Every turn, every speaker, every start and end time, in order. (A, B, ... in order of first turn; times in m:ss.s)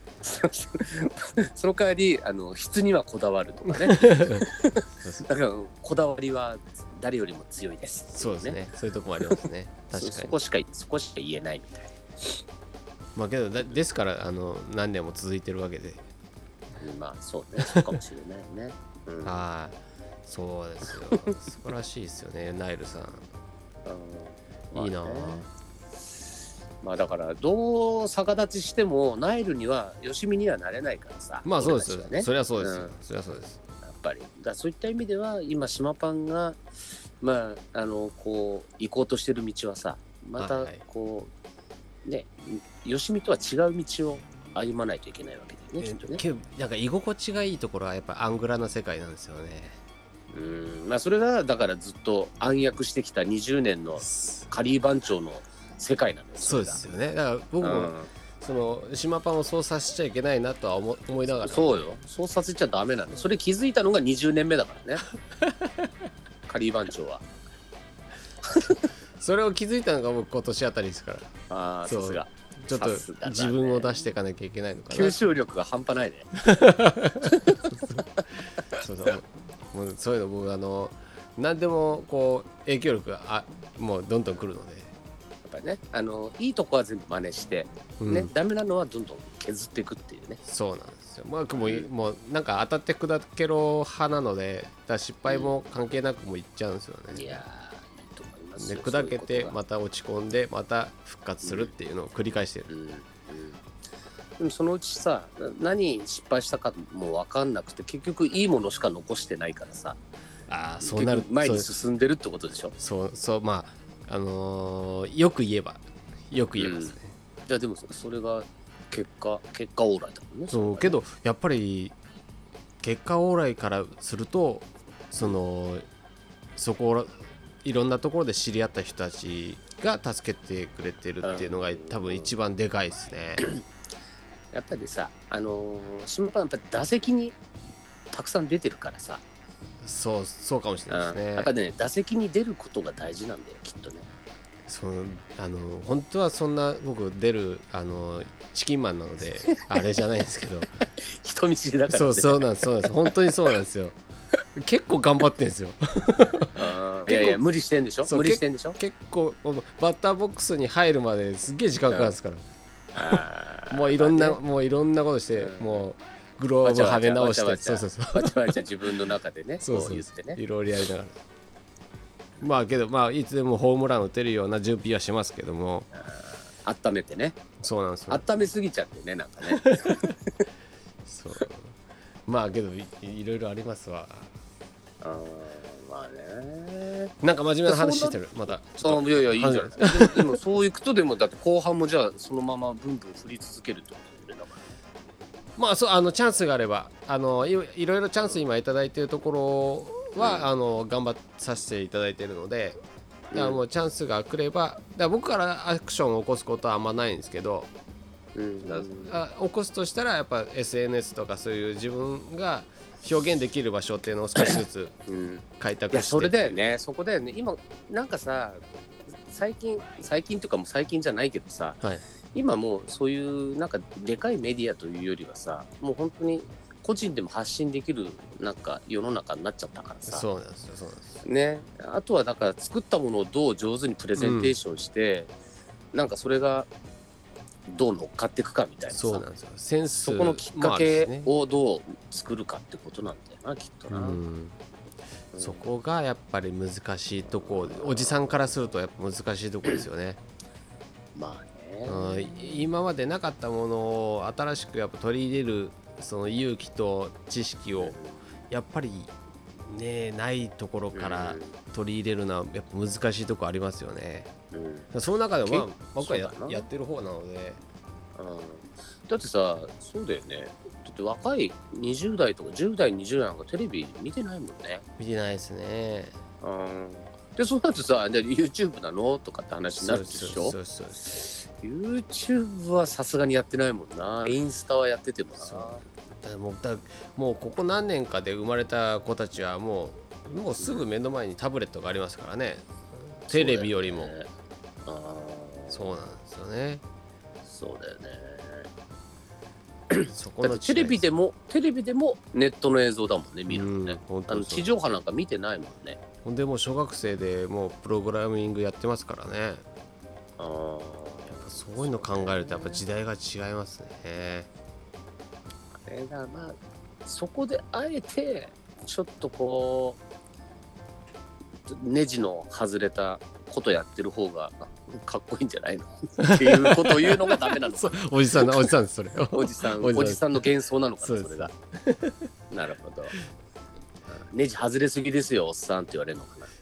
0:00.2-0:08.6 A
0:03.7-0:04.5 B
0:08.1-0:10.4 B
0:09.9-0:12.4 A
0:13.2-0:16.1 B
0:16.8-0:19.4 A
0:17.6-0:17.9 B
0:19.2-0:23.2 B
0:23.8-0:25.4 A
0:24.8-0:25.5 B
0:26.8-0:32.9 A
0:31.4-0:33.6 B
0:33.8-0:36.6 A
0:37.2-0:41.3 A
0:40.4-0:40.8 B
0:42.0-0:46.2 A
0:45.8-0:49.8 B
0:50.3-0:56.8 A
0:54.0-0:54.5 B
0:56.4-1:01.9 B
0:57.6-0:58.1 A
1:01.4-1:05.0 A
1:05.3-1:05.9 B
1:06.5-1:07.2 A
1:08.4-1:08.9 A
1:09.2-1:11.3 B
1:11.5-1:14.1 A
1:11.9-1:15.2 B
1:14.9-1:16.3 A
1:16.4-1:17.8 B
1:17.2-1:18.2 A
1:18.8-1:24.9 B
1:25.4-1:30.4 A
1:28.0-1:28.3 B
1:30.4-1:37.4 B
1:31.6-1:31.9 A
1:35.3-1:35.5 A
1:37.1-1:39.6 A
1:38.6-1:42.7 B
1:41.4-1:41.7 A
1:42.7-1:43.6 A
1:44.4-1:50.0 A
1:50.5-1:51.8 B
1:50.8-1:52.8 A
1:52.8-1:57.1 B
1:56.6-1:57.0 A
1:57.5-2:01.0 A
2:00.5-2:02.0 B
2:02.8-2:05.8 B
2:06.6-2:13.5 B
2:11.2-2:12.3 A
2:14.5-2:17.4 A
2:18.1-2:19.2 A
2:19.8-2:21.5 B
2:20.9-2:24.1 A
2:24.7-2:30.7 B
2:31.0-2:33.1 A
2:31.9-2:34.0 B
2:34.6-2:36.6 B
2:36.6-2:38.8 A
2:37.1-2:37.4 B
2:38.0-2:42.4 B
2:41.9-2:42.1 A
2:42.9-2:44.4 A
2:43.0-2:48.6 B
2:45.4-2:45.9 A
2:46.6-2:50.4 A
2:49.6-2:51.2 B
2:52.4-2:55.9 B
2:55.9-2:57.4 A
2:57.6-2:58.2 B
2:58.1-3:00.4 A
2:59.4-3:00.2 B
3:01.1-3:01.8 B
3:02.3-3:04.3 B
3:05.0-3:07.1 A
3:07.2-3:10.4 B
3:07.6-3:14.7 A
3:15.6-3:22.8 B
3:20.2-3:20.5 A
3:23.3-3:23.6 A
3:23.3-3:27.7 B
3:28.4-3:29.2 A
3:28.6-3:35.0 B
3:34.4-3:38.6 A
3:35.6-3:36.6 B
3:39.3-3:41.8 A
3:42.3-3:50.3 A
3:50.1-3:51.2 B
3:51.2-3:55.3 A
3:54.2-3:54.5 B
3:55.9-3:56.7 A
3:57.7-3:59.2 A
3:58.9-4:01.3 B
3:59.9-4:04.2 A
4:03.9-4:04.6 B
4:05.3-4:05.6 A
4:05.4-4:10.2 B
4:07.3-4:08.5 A
4:11.1-4:12.7 A
4:11.8-4:18.0 B
4:17.8-4:18.2 A
4:18.5-4:19.1 B
4:19.6-4:24.3 B
4:20.9-4:21.6 A
4:24.5-4:24.9 A
4:24.9-4:27.6 B
4:25.4-4:26.7 A
4:28.2-4:34.8 A
4:35.0-4:36.1 B
4:36.4-4:40.6 A
4:39.8-4:41.3 B
4:41.1-4:45.8 A
4:45.4-4:54.1 B
4:50.6-4:50.9 A
4:53.3-4:54.3 A
4:54.8-4:55.9 A
4:55.7-4:56.8 B
4:57.4-4:58.7 A
4:59.9-5:06.0 A
5:00.1-5:01.1 B
5:03.5-5:04.7 B
5:06.2-5:09.6 B
5:10.4-5:12.8 A
5:11.4-5:14.5 B
5:15.8-5:20.0 A
5:21.6-5:28.7 A
5:26.2-5:30.4 B
5:29.3-5:31.5 A
5:31.0-5:32.3 B
5:32.5-5:33.1 A
5:34.1-5:36.5 A